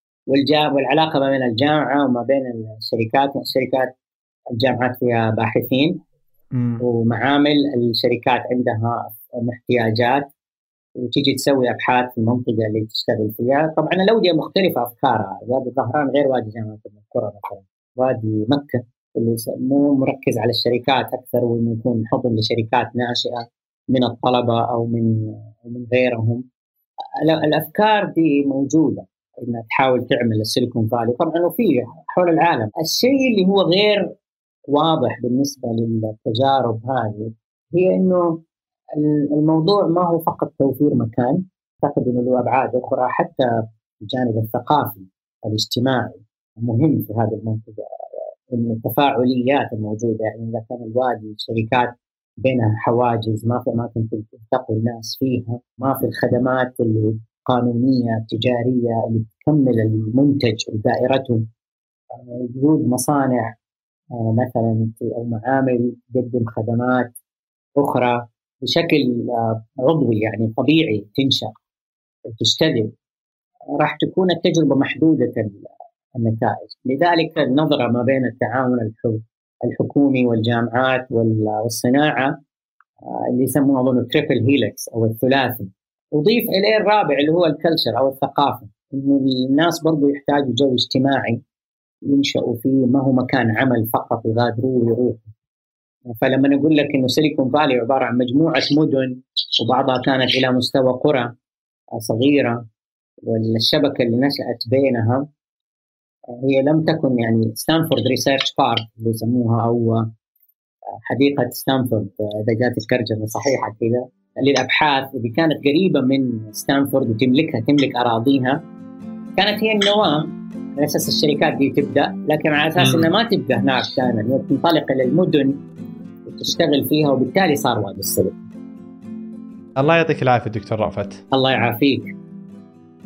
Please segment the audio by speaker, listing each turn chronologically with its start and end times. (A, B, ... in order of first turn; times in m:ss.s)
0:00.3-0:03.9 A
0:04.6-0:06.0 A
0:06.5-0:06.8 B
0:06.8-0:10.3 A
0:11.0-0:26.4 A
0:27.2-0:34.0 A
0:34.7-0:38.4 A
0:38.9-1:01.4 A
1:02.1-1:03.5 A
1:04.1-1:07.1 A
1:07.8-1:11.5 A
1:12.3-1:12.9 A
1:13.8-1:22.4 A
1:23.0-1:31.4 A
1:32.1-1:35.3 A
1:36.1-1:41.3 A
1:42.0-1:42.6 A
1:43.3-1:45.2 A
1:46.3-1:50.0 A
1:51.1-1:58.6 A
1:59.4-2:05.6 A
2:02.8-2:03.1 B
2:06.3-2:08.4 A
2:09.8-2:11.2 B
2:11.3-2:12.1 A